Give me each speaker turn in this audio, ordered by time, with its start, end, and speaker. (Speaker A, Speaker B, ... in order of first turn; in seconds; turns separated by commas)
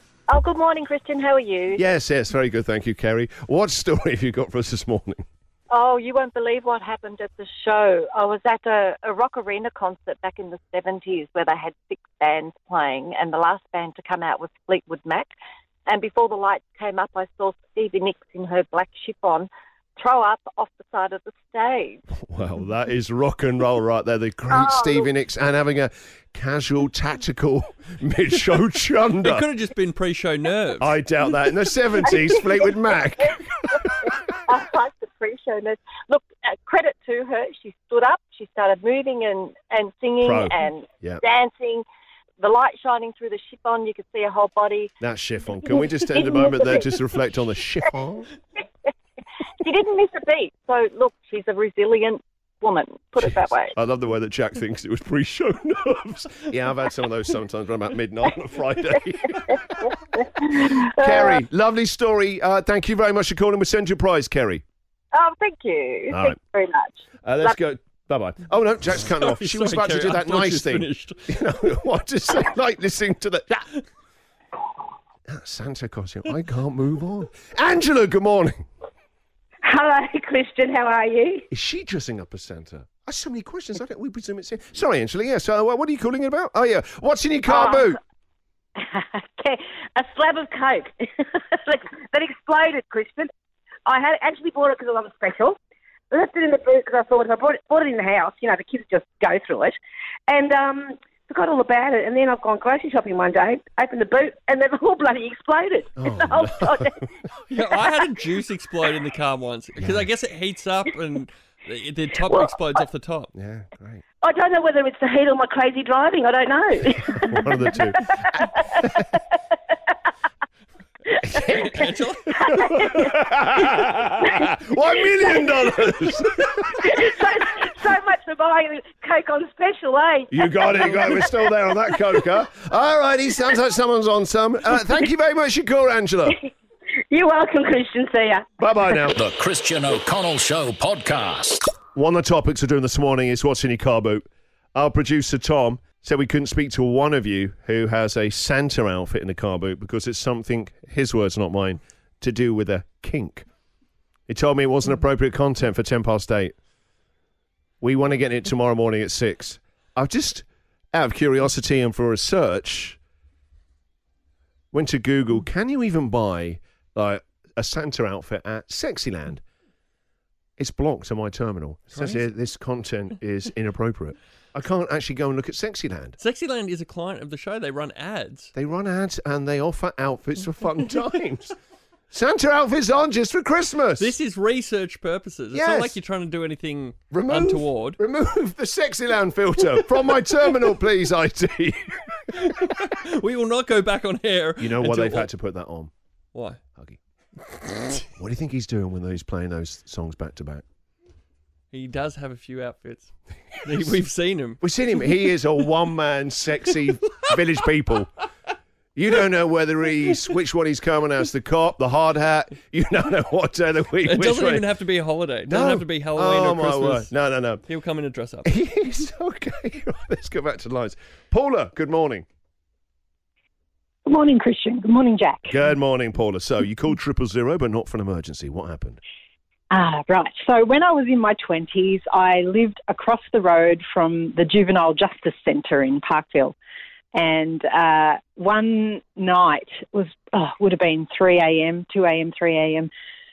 Speaker A: 0.3-1.8, Speaker B: 1.8-5.2, Speaker A: 5.7-15.3, Speaker A: 15.9-22.0, Speaker B: 22.2-29.5, Speaker A: 24.5-25.1, Speaker C: 29.2-30.9, Speaker B: 30.8-34.2, Speaker A: 32.1-41.9, Speaker B: 40.2-41.2, Speaker A: 42.4-44.9, Speaker B: 45.0-48.3, Speaker A: 45.8-47.0, Speaker A: 49.6-53.7, Speaker B: 53.8-59.9, Speaker A: 60.4-61.2, Speaker B: 60.8-64.6, Speaker A: 65.1-67.5, Speaker B: 66.1-66.3, Speaker B: 67.2-73.7, Speaker C: 69.2-71.3, Speaker B: 75.3-78.6, Speaker D: 79.6-81.5, Speaker B: 81.5-88.0, Speaker D: 87.5-87.9, Speaker D: 88.8-93.3, Speaker D: 93.8-95.6, Speaker D: 96.1-107.0, Speaker B: 106.0-107.0, Speaker C: 107.5-113.3, Speaker B: 109.8-110.1, Speaker B: 113.3-114.0, Speaker D: 114.2-117.4, Speaker B: 117.2-118.0, Speaker D: 118.0-118.8, Speaker B: 121.2-121.8, Speaker C: 121.4-122.8, Speaker B: 122.3-126.7, Speaker D: 126.8-131.6, Speaker B: 130.3-136.4, Speaker D: 137.1-138.5, Speaker B: 138.6-139.2, Speaker E: 139.1-141.7, Speaker B: 141.9-153.4, Speaker B: 154.3-156.5, Speaker B: 157.8-163.0, Speaker B: 164.7-169.4, Speaker B: 170.6-176.2, Speaker C: 171.9-172.2, Speaker C: 176.2-178.5, Speaker B: 178.5-181.5, Speaker B: 182.1-184.1, Speaker C: 184.0-188.0, Speaker B: 185.5-185.9, Speaker B: 187.1-192.3, Speaker C: 192.3-195.3, Speaker B: 194.6-195.9, Speaker B: 198.2-200.6, Speaker C: 201.7-204.6, Speaker B: 204.6-208.1, Speaker B: 208.9-214.7, Speaker C: 214.0-218.5, Speaker B: 215.4-217.6, Speaker B: 218.4-222.2, Speaker F: 224.1-225.5, Speaker B: 225.5-229.0, Speaker F: 229.7-236.6, Speaker F: 237.1-242.9